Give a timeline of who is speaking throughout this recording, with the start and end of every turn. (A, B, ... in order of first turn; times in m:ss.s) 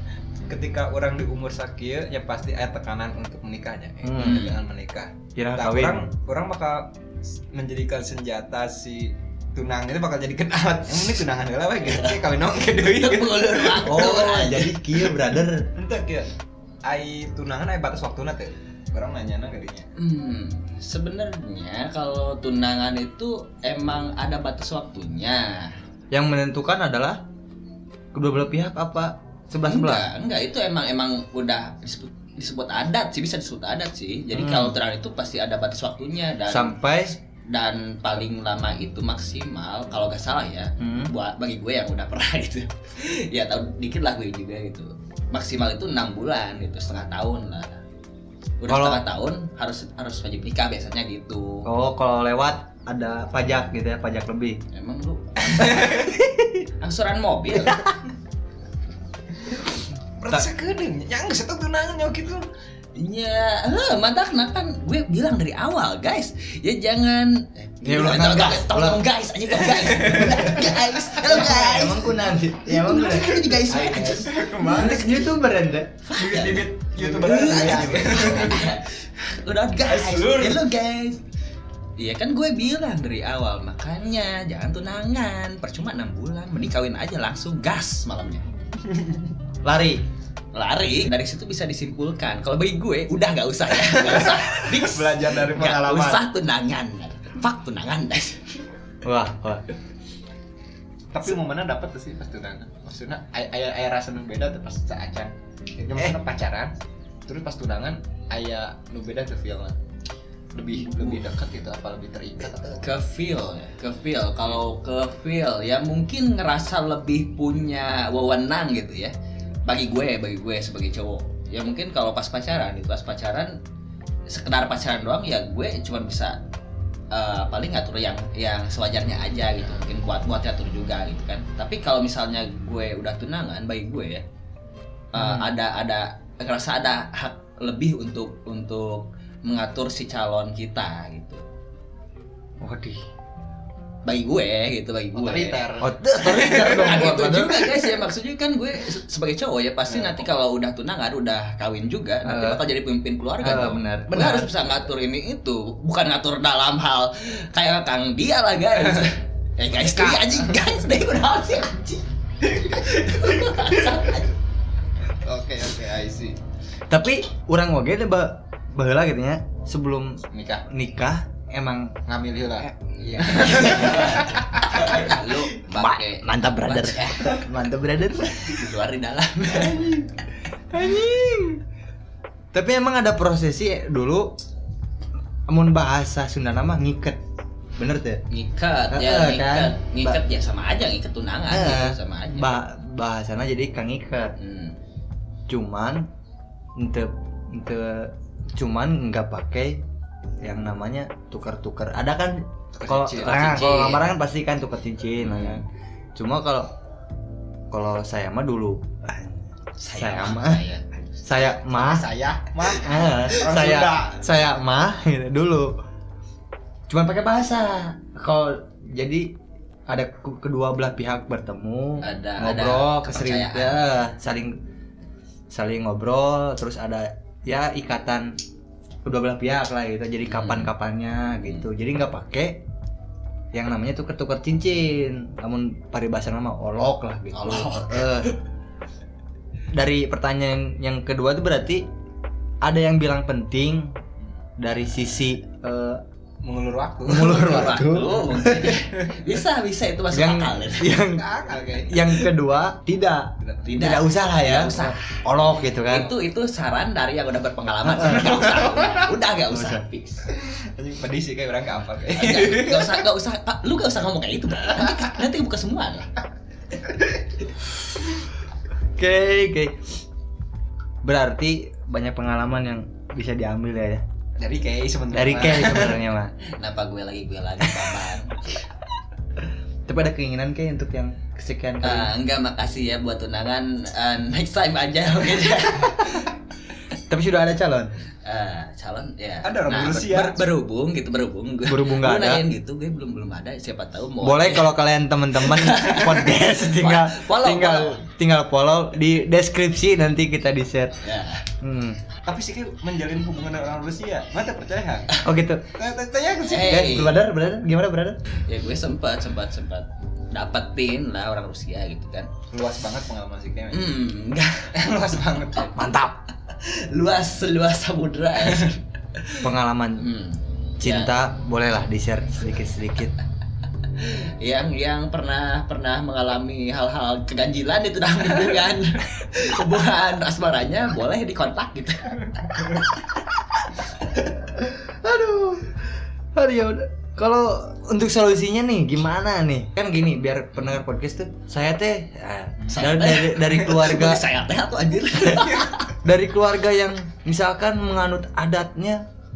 0:00.5-0:14.4 A
0:04.0-0:04.6 B
0:04.2-0:04.6 C
0:05.4-0:06.1 B
0:11.8-0:12.2 C
0:12.8-0:14.8 C
0:13.8-0:15.7 B
0:15.8-0:16.3 A
0:16.8-0:19.9 A
0:20.0-0:25.7 C
0:26.1-0:27.2 B
0:28.1-0:30.1 B
0:29.7-0:47.8 C
0:34.3-0:34.8 B
0:36.5-0:37.1 B
0:40.8-0:41.1 B
0:48.6-0:51.7 C
0:48.7-0:49.0 B
0:51.7-0:54.6 B
0:54.7-0:56.0 C
0:55.5-0:56.2 A
0:56.2-0:56.5 B
0:56.8-0:57.9 C
0:59.4-1:02.4 A
1:03.0-1:14.3 C
1:07.8-1:09.0 B
1:09.7-1:10.7 A
1:11.2-1:13.6 B
1:13.7-1:15.3 A
1:14.6-1:15.9 B
1:16.0-1:21.2 C
1:16.1-1:18.8 A
1:17.2-1:18.7 B
1:19.9-1:20.6 A
1:22.0-1:28.4 C
1:28.9-1:29.3 A
1:29.6-1:30.0 B
1:30.5-1:38.6 C
1:33.8-1:36.2 A
1:35.6-1:36.2 B
1:39.0-1:39.6 B
1:41.1-1:46.7 A
1:47.3-1:49.8 A
1:50.5-1:52.9 A
1:52.7-1:59.1 C
1:59.7-2:03.6 C
2:04.3-2:06.4 C
2:07.1-2:14.2 C
2:15.1-2:21.4 C
2:15.2-2:15.5 B
2:22.6-2:23.0 B
2:24.0-2:44.3 C
2:25.1-2:27.0 A
2:25.8-2:27.7 B
2:29.9-2:30.2 A
2:32.2-2:32.6 B
2:33.4-2:34.6 B
2:39.8-2:40.3 A
2:42.6-2:43.6 A
2:45.2-2:46.4 A
2:46.9-2:52.0 B
2:50.3-2:50.7 A
2:52.1-2:55.0 A
2:53.4-2:57.4 C
2:53.5-2:53.9 B
2:55.5-2:58.6 B
2:58.3-3:00.0 C
2:59.6-3:00.0 A
3:00.7-3:01.6 B
3:02.5-3:04.3 B
3:05.5-3:07.2 B
3:07.8-3:08.2 B
3:08.3-3:12.6 C
3:08.9-3:10.2 B
3:11.5-3:14.3 B
3:14.4-3:14.8 C
3:15.5-3:16.0 B
3:16.8-3:19.8 B
3:20.4-3:25.6 B
3:22.8-3:23.7 A
3:23.3-3:24.1 C
3:25.2-3:25.6 C
3:26.2-3:26.7 B
3:27.7-3:30.6 B
3:29.8-3:31.2 C
3:31.2-3:32.1 B
3:31.3-3:34.4 A
3:32.7-3:35.7 B
3:36.9-3:39.3 B
3:39.9-3:44.5 B
3:42.0-3:43.9 C
3:45.5-3:48.3 B
3:49.1-3:52.6 B
3:50.2-3:50.7 C
3:53.5-3:58.3 B
3:57.3-3:58.4 C
3:59.7-4:01.9 B
4:02.6-4:03.9 B
4:04.6-4:06.0 B
4:06.4-4:07.7 A
4:07.0-4:08.8 B
4:07.3-4:11.0 C
4:10.1-4:16.1 B
4:11.0-4:12.2 A
4:13.4-4:13.9 A
4:13.6-4:15.2 C
4:15.8-4:20.3 C
4:17.9-4:18.4 B
4:19.5-4:19.8 B
4:20.3-4:23.1 A
4:22.2-4:26.1 C
4:29.0-4:29.9 B
4:31.0-4:34.0 B
4:34.4-4:36.0 A
4:35.1-4:36.3 B
4:36.6-4:38.4 C
4:37.7-4:38.1 B
4:39.9-4:42.1 B
4:41.8-4:46.3 C
4:47.1-4:47.9 B
4:48.2-4:54.7 C
4:49.4-4:50.4 A
4:51.7-4:52.4 B
4:54.2-5:00.9 B
4:55.4-4:58.1 C
5:01.0-5:01.4 C
5:01.6-5:02.0 B
5:02.2-5:05.1 A
5:05.2-5:05.7 B
5:05.8-5:07.0 A
5:06.5-5:07.2 C
5:06.7-5:08.2 B
5:08.4-5:12.3 C
5:12.5-5:13.9 A
5:13.7-5:14.7 C
5:14.7-5:15.9 A
5:15.8-5:16.2 B
5:16.5-5:21.1 C
5:19.4-5:20.1 B
5:20.8-5:23.2 B
5:24.0-5:32.9 C
5:34.1-5:44.2 B
5:42.6-5:42.9 A
5:42.7-5:46.0 C
5:45.3-5:45.7 A
5:46.0-5:49.0 B